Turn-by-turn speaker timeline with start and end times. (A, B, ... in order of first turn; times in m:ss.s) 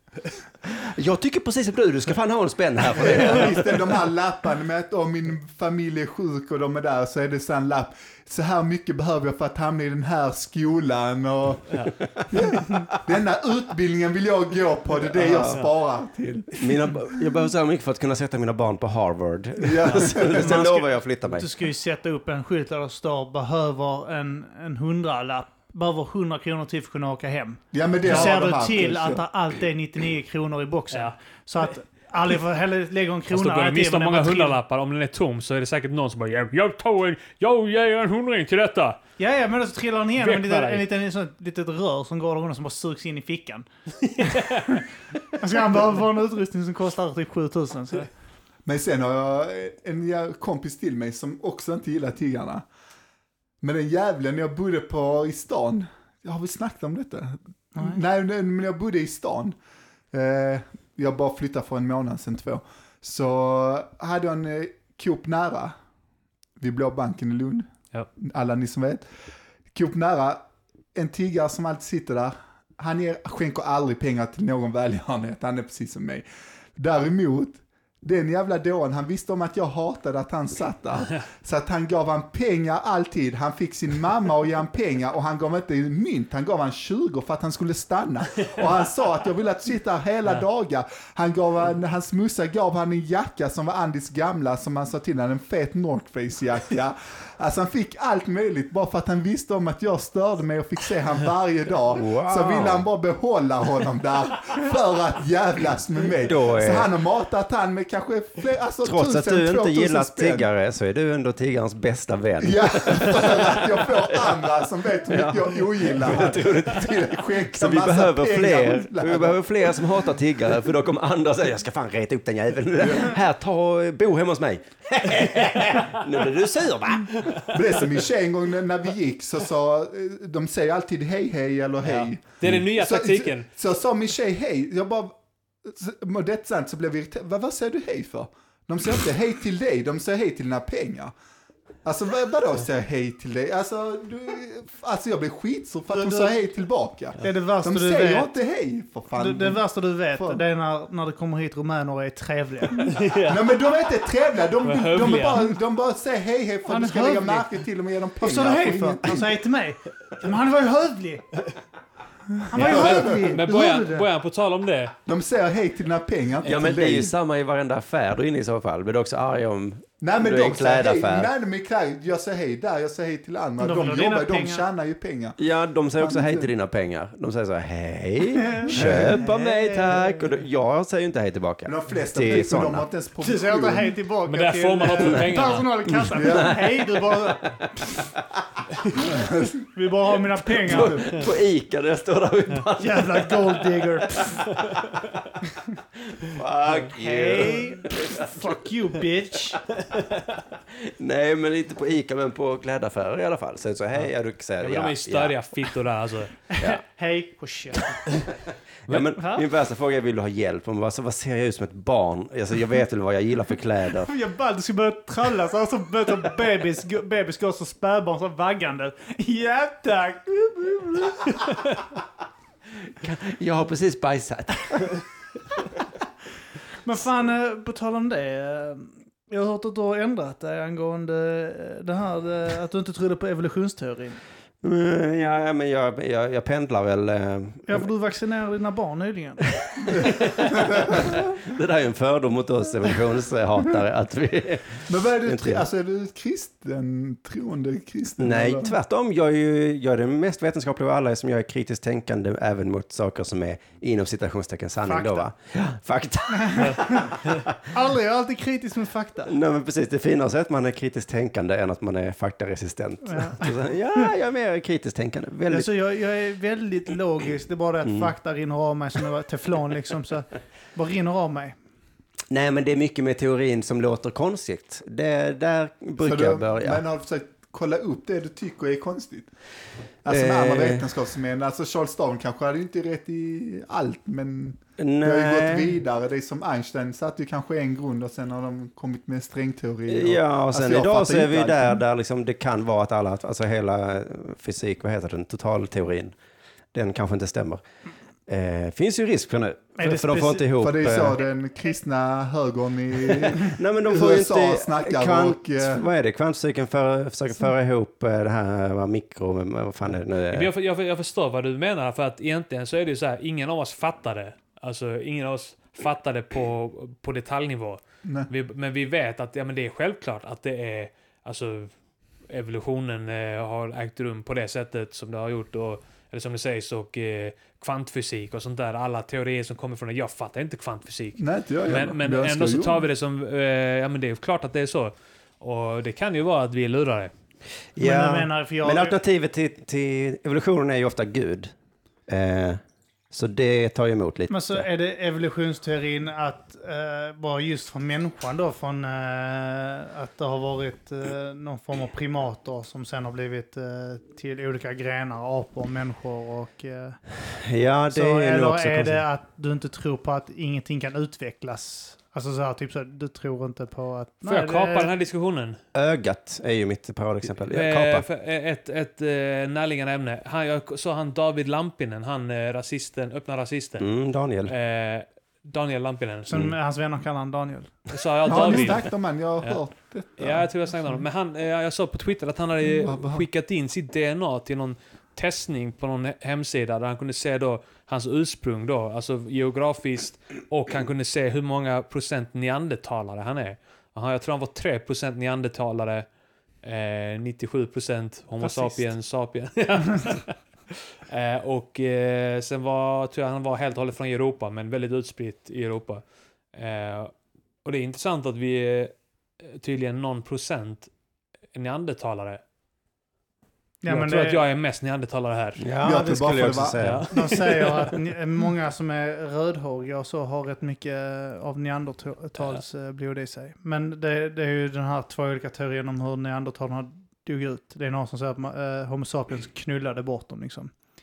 0:00.6-0:03.9 A
0:02.9-0:17.2 B
0:12.1-0:12.9 A
0:15.1-0:15.6 A
0:16.6-0:21.5 A
0:19.6-0:20.7 B
0:20.3-0:34.6 C
0:27.7-0:29.2 B
0:28.0-0:28.3 D
0:33.3-0:39.0 D
0:39.2-0:43.7 C
0:40.2-0:40.8 D
0:44.1-0:44.8 D
0:44.2-0:44.8 C
0:45.3-0:48.1 C
0:48.6-0:52.6 B
0:53.6-0:59.6 B
0:57.7-0:58.0 C
1:00.1-1:05.7 B
1:06.6-1:07.7 B
1:08.2-1:09.0 B
1:09.7-1:10.4 B
1:10.9-1:16.2 B
1:16.8-1:50.4 B
1:42.0-1:42.8 A
1:46.3-1:46.9 A
1:48.8-1:54.3 A
1:52.4-1:59.8 B
1:55.1-2:07.6 A
2:07.5-2:21.1 B
2:11.8-2:13.5 D
2:21.8-2:29.6 B
2:25.9-2:26.3 C
2:27.2-2:28.3 C
2:29.2-2:32.9 C
2:30.1-2:30.4 B
2:32.8-2:33.6 D
2:33.1-2:39.3 B
2:34.6-2:35.5 D
2:36.6-2:37.5 C
2:38.2-2:41.3 C
2:42.4-2:43.4 B
2:42.5-2:44.0 C
2:42.5-2:44.9 D
2:45.0-2:47.1 B
2:46.4-2:51.3 A
2:50.0-2:55.4 B
2:53.6-2:54.6 C
2:55.4-3:02.8 A
2:56.0-2:56.5 B
2:58.4-3:00.3 C
2:58.7-2:59.2 B
3:01.6-3:03.9 B
3:03.2-3:07.6 C
3:04.3-3:05.7 D
3:05.9-3:08.0 A
3:06.1-3:06.5 B
3:09.2-3:09.5 B
3:09.7-3:11.1 C
3:10.6-3:13.6 A
3:12.8-3:14.5 C
3:14.7-3:15.0 A
3:16.2-3:18.5 A
3:16.9-3:19.6 C
3:19.9-3:25.4 A
3:24.0-3:26.4 D
3:26.5-3:28.3 C
3:28.9-3:34.1 A
3:29.2-3:29.4 C
3:34.0-3:41.5 C
3:43.0-3:45.0 A
3:46.8-3:54.2 C
3:54.6-3:57.8 A
3:57.7-4:00.0 C
3:59.8-4:05.6 A
4:04.9-4:08.8 B
4:08.2-4:17.5 A
4:14.8-4:15.3 C
4:16.3-4:17.2 C
4:17.7-4:19.3 C
4:19.3-4:25.7 A
4:23.0-4:23.5 C
4:25.5-4:31.6 C
4:27.8-4:28.1 A
4:32.3-4:36.8 A
4:36.0-4:39.3 B
4:40.0-4:51.8 B
4:40.1-4:40.8 A
4:44.8-4:45.7 A
4:49.9-4:56.1 A
4:56.7-4:57.6 A
4:58.3-5:01.2 A
4:59.8-5:00.5 C
5:00.6-5:05.9 B
5:03.1-5:10.5 A
5:10.3-5:21.7 D
5:18.0-5:18.3 B
5:22.3-5:37.1 D
5:31.2-5:32.8 B
5:37.8-5:41.5 A
5:37.8-5:39.0 C
5:42.1-5:42.6 A
5:43.1-5:44.6 A
5:44.3-5:57.0 C
5:57.3-5:59.0 A
5:57.9-6:04.9 C
6:04.2-6:05.6 D
6:05.7-6:08.0 A
6:07.4-6:13.9 D
6:13.8-6:14.5 A
6:14.4-6:16.5 D
6:16.3-6:17.7 C
6:17.9-6:18.9 D
6:18.2-6:20.5 B
6:20.2-6:36.0 D
6:22.7-6:23.3 B
6:36.6-6:40.4 D
6:38.4-6:38.8 C
6:41.1-6:47.1 D
6:47.6-6:50.9 D
6:51.5-6:52.4 D
6:53.8-6:54.4 C
6:53.9-6:55.6 D
6:55.6-6:57.1 A
6:55.8-6:56.8 B
6:56.8-6:57.6 D
6:57.1-7:10.7 C